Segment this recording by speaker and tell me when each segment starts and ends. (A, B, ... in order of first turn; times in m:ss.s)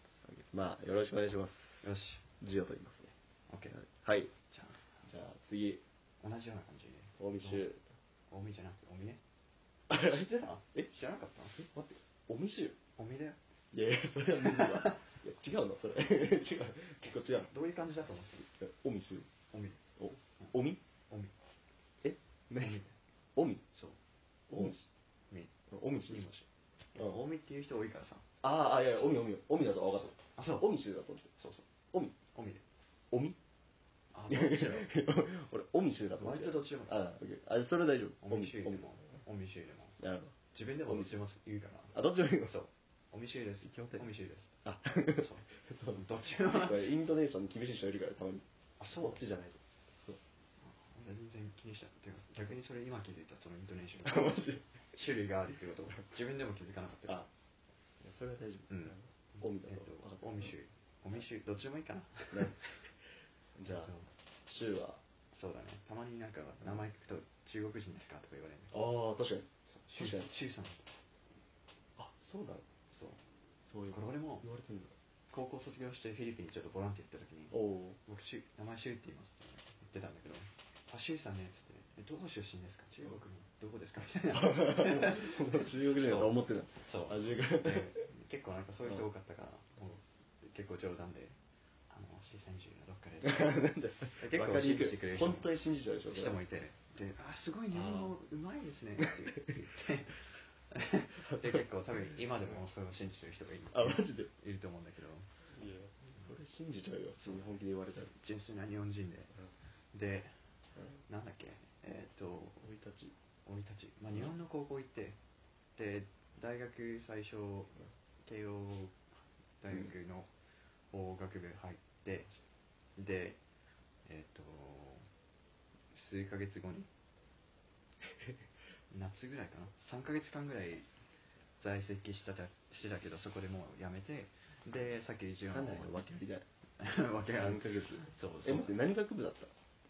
0:00.3-0:01.8 A
0:01.8-0:02.2 B
0:02.4-0:03.1 A
0:03.5-0:03.8 B
0:03.7-0:04.3 A
0:04.5-0:04.8 B
0:05.0-0:05.8 A
0:06.2-0:07.6 B
0:07.2-0:07.8 A
0:08.3-0:09.2 B
0:09.9-0:10.9 A
0:10.0-0:11.6 B
0:11.6-0:12.8 A
0:13.0-0:13.4 B
0:13.7-0:17.5 A
0:14.4-0:15.0 B
0:17.0-0:18.5 B
0:18.6-0:19.3 A
0:19.5-0:19.8 B
0:20.0-0:20.8 A
0:22.0-0:23.6 A
0:24.5-0:24.8 A
0:25.3-0:28.2 B
0:25.7-0:26.3 A
0:28.4-0:31.3 A
0:30.0-0:30.7 B
0:31.4-0:32.6 B
0:33.1-0:33.4 A
0:34.1-0:34.9 B
0:34.3-0:38.9 A
0:36.2-0:37.0 B
0:38.2-0:40.0 B
0:40.0-0:41.1 A
0:40.5-0:44.5 B
0:41.9-0:42.6 A
0:43.6-0:44.1 A
0:44.6-0:48.4 A
0:45.2-0:46.9 B
0:48.8-0:49.2 B
0:49.0-0:50.2 A
0:50.6-0:57.2 B
0:54.0-0:54.6 A
0:58.0-1:00.5 A
0:58.7-1:02.8 B
1:02.3-1:02.6 A
1:03.6-1:03.9 A
1:03.6-1:04.1 B
1:04.4-1:05.0 A
1:05.3-1:08.8 B
1:08.7-1:10.3 A
1:09.7-1:10.9 B
1:12.0-1:12.6 A
1:12.9-1:13.2 B
1:13.7-1:14.9 A
1:13.9-1:14.4 B
1:15.3-1:31.4 B
1:17.5-1:18.0 A
1:24.3-1:28.1 A
1:31.9-1:35.5 B
1:33.2-1:36.4 A
1:36.1-1:45.3 B
1:37.7-1:38.1 A
1:39.0-1:39.5 A
1:41.2-1:41.6 A
1:43.7-1:44.3 A
1:45.5-1:48.1 A
1:48.1-1:49.4 B
1:49.9-1:50.4 B
1:51.1-1:52.6 B
1:52.6-1:53.1 A
1:53.4-1:55.2 B
1:55.8-2:00.3 B
2:00.9-2:02.4 B
2:03.0-2:03.4 B
2:04.0-2:05.1 B
2:05.9-2:06.9 B
2:08.9-2:10.9 B
2:11.6-2:16.1 B
2:15.5-2:16.4 A
2:16.8-2:18.8 B
2:17.4-2:19.5 A